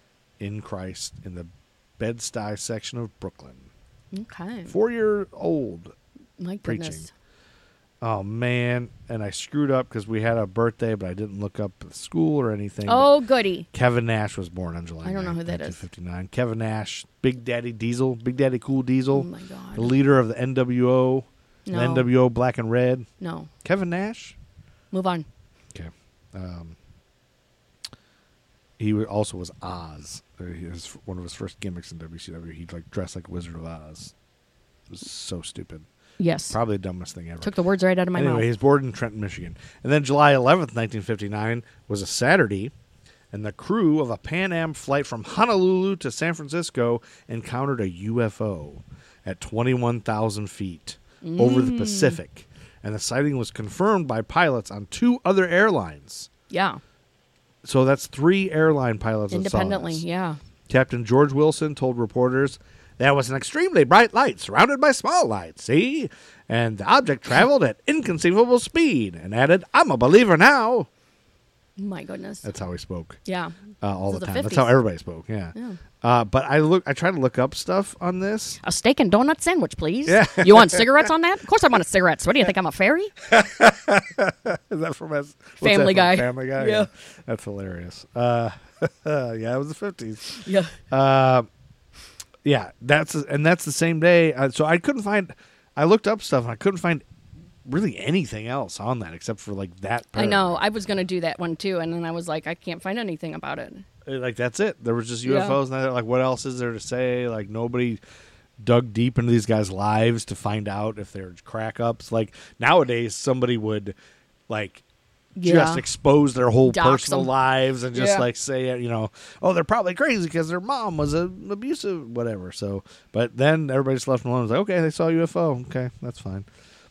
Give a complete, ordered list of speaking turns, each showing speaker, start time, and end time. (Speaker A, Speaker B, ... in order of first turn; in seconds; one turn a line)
Speaker A: 0.4-3.7
Speaker B: 4.1-4.7
Speaker A: 4.7-5.9
Speaker B: 6.4-7.1
Speaker A: 6.6-7.1
Speaker A: 8.0-13.1
Speaker B: 12.8-13.7
Speaker A: 13.7-23.1
Speaker B: 15.0-15.8
Speaker B: 19.1-19.9
Speaker B: 21.6-22.1
Speaker B: 23.2-23.5
Speaker A: 23.6-24.4
Speaker B: 24.9-25.3
Speaker A: 25.7-26.8
Speaker A: 28.8-34.1
Speaker A: 34.9-35.9
Speaker B: 36.2-36.6
Speaker A: 36.5-37.5
Speaker B: 37.4-38.5
Speaker A: 38.1-42.7
Speaker A: 43.3-56.3
Speaker B: 51.2-52.2
Speaker B: 56.5-56.8
Speaker A: 57.6-60.0
Speaker B: 59.3-60.4
Speaker A: 60.7-70.9
Speaker B: 71.8-72.5
Speaker A: 72.4-73.2
Speaker B: 73.2-73.5
Speaker A: 73.8-78.6
Speaker B: 74.1-74.8
Speaker B: 75.5-75.8
Speaker B: 78.6-83.1
Speaker A: 80.0-81.1
Speaker A: 83.2-91.5
Speaker B: 85.6-86.9
Speaker B: 90.3-90.8
Speaker A: 92.4-97.0
Speaker A: 97.6-100.6
Speaker B: 100.1-103.8
Speaker A: 104.0-108.0
Speaker B: 105.2-105.6
Speaker A: 108.6-113.9
Speaker A: 114.5-114.8
Speaker B: 115.3-115.8
Speaker A: 115.4-126.5
Speaker B: 116.6-117.3
Speaker B: 117.9-118.2